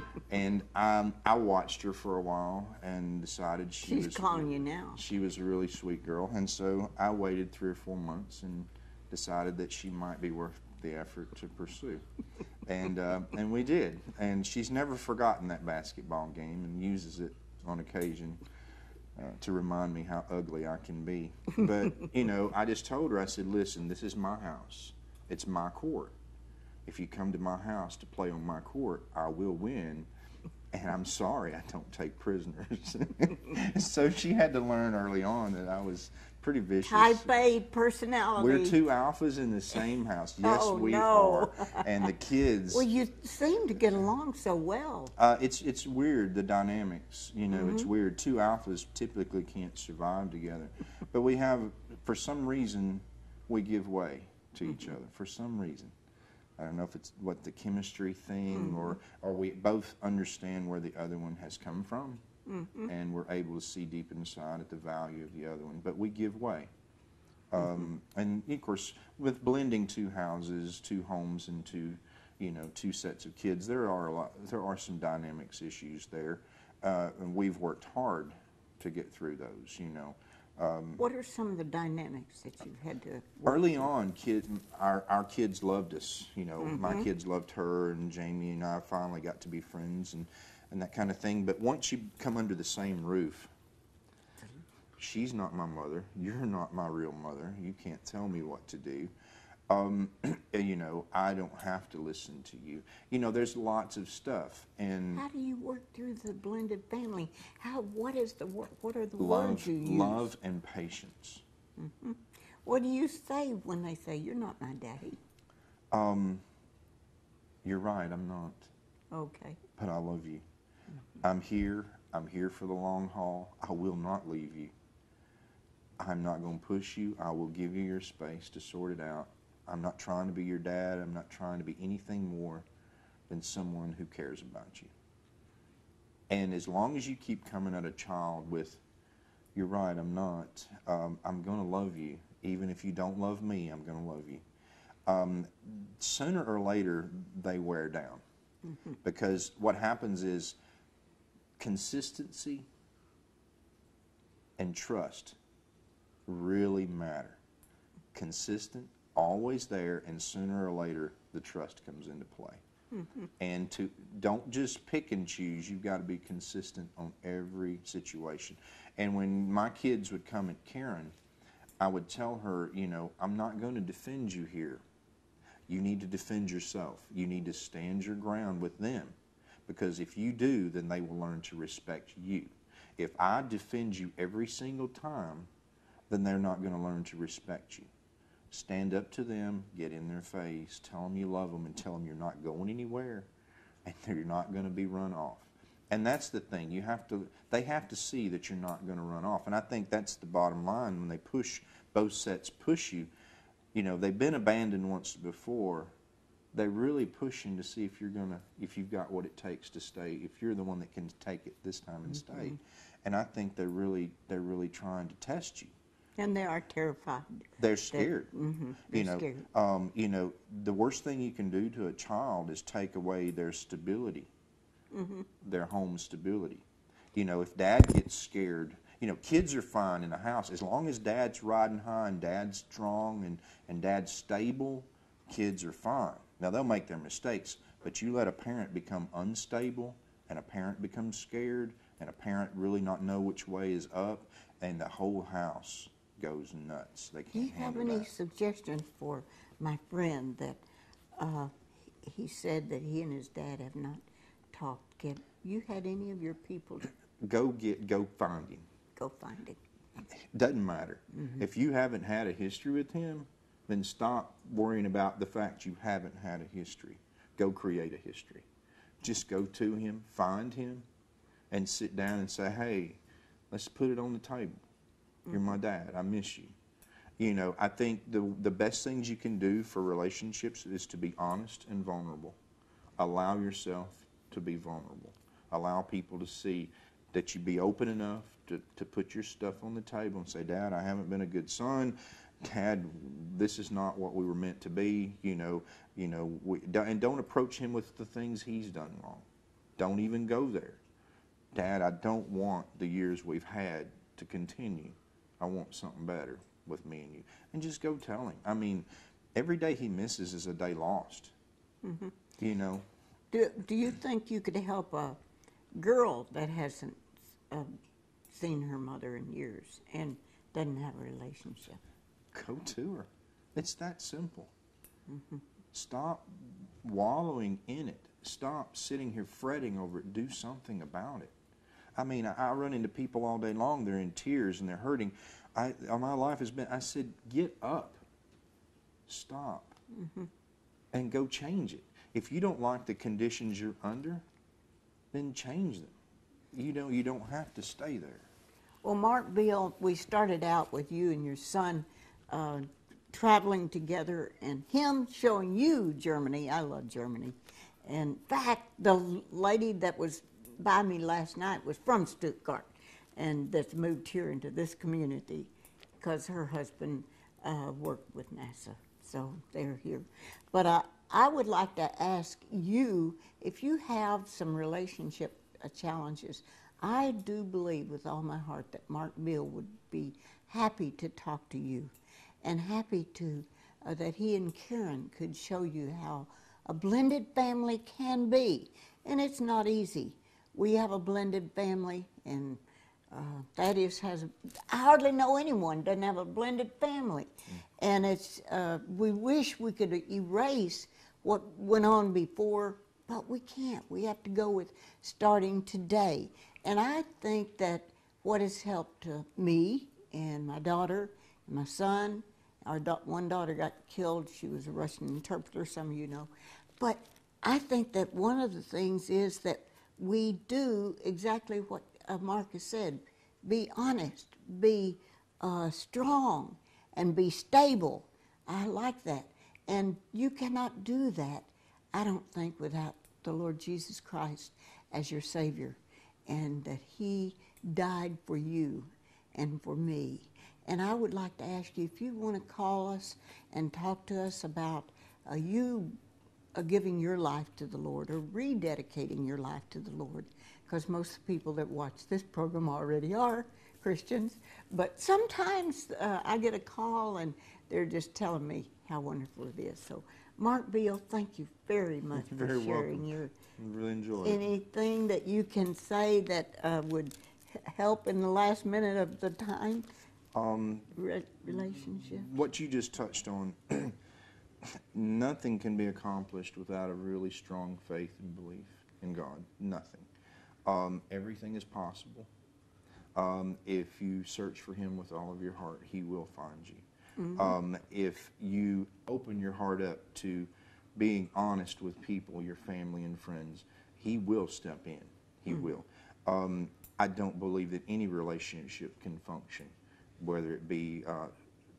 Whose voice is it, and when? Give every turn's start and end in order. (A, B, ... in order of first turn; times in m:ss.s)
0:00.2-0:12.0 A
0:03.8-0:05.0 B
0:12.6-0:18.4 A
0:19.1-0:26.1 A
0:26.8-0:30.1 A
0:30.7-0:37.3 A
0:36.8-0:38.8 B
0:38.4-0:42.9 A
0:40.4-0:42.0 B
0:42.7-0:45.1 B
0:45.2-0:55.9 A
0:47.5-0:47.9 B
0:56.6-1:02.2 A
1:02.5-1:02.9 B
1:02.8-1:06.7 A
1:07.5-1:21.0 A
1:21.0-1:23.8 B
1:23.4-1:33.5 A
1:26.6-1:27.0 B
1:35.0-1:39.1 A
1:39.7-1:45.2 A
1:45.1-1:50.3 B
1:49.2-1:51.4 A
1:51.8-1:55.2 B
1:55.9-1:56.4 A
1:57.6-1:58.7 A
1:59.1-1:59.6 B
1:59.8-2:00.4 A
2:01.2-2:04.7 A
2:06.0-2:12.6 A
2:13.3-2:14.9 A
2:16.3-2:18.8 A
2:19.5-2:24.4 A
2:25.0-2:28.2 A
2:29.0-2:30.6 A
2:31.6-2:32.7 A
2:34.6-2:35.4 A
2:36.2-2:37.4 A
2:38.1-2:42.6 A
2:43.4-2:51.1 A
2:51.8-2:54.8 A
2:55.7-3:05.5 A
3:06.1-3:07.9 A
3:08.5-3:13.3 A
3:13.8-3:23.1 A
3:23.7-3:25.9 A
3:26.5-3:35.8 A
3:36.2-3:39.4 B
3:37.6-3:38.3 A
3:38.9-3:44.3 A
3:44.9-3:45.3 B
3:45.4-4:08.1 A
4:07.3-4:10.6 B
4:11.2-4:16.9 B
4:17.2-4:18.7 A
4:19.0-4:19.6 B
4:20.1-4:28.4 A
4:21.1-4:21.4 B
4:29.0-4:30.8 A
4:31.5-4:34.6 A
4:35.3-4:36.5 A
4:37.2-4:42.4 A
4:43.0-5:00.8 A
5:01.5-5:11.3 A
5:11.8-5:12.1 B
5:12.4-5:12.8 A
5:13.3-5:15.2 B
5:15.7-5:17.7 B
5:18.3-5:21.8 B
5:22.3-5:24.5 A
5:25.1-5:25.4 B
5:25.7-5:31.3 A
5:32.0-5:38.0 A
5:39.1-5:39.8 A
5:39.9-5:40.3 B
5:40.9-5:44.2 A
5:45.1-5:46.0 A
5:46.5-5:48.2 A
5:48.8-6:21.9 B
6:22.4-7:26.0 B
7:26.5-7:43.3 B
7:42.1-7:44.4 A
7:44.2-7:49.8 B
7:50.3-7:50.9 A
7:50.9-7:52.3 B
7:51.7-7:54.0 A
7:54.6-8:00.1 A
8:00.6-8:02.3 A
8:03.1-8:21.3 A
8:07.2-8:07.6 B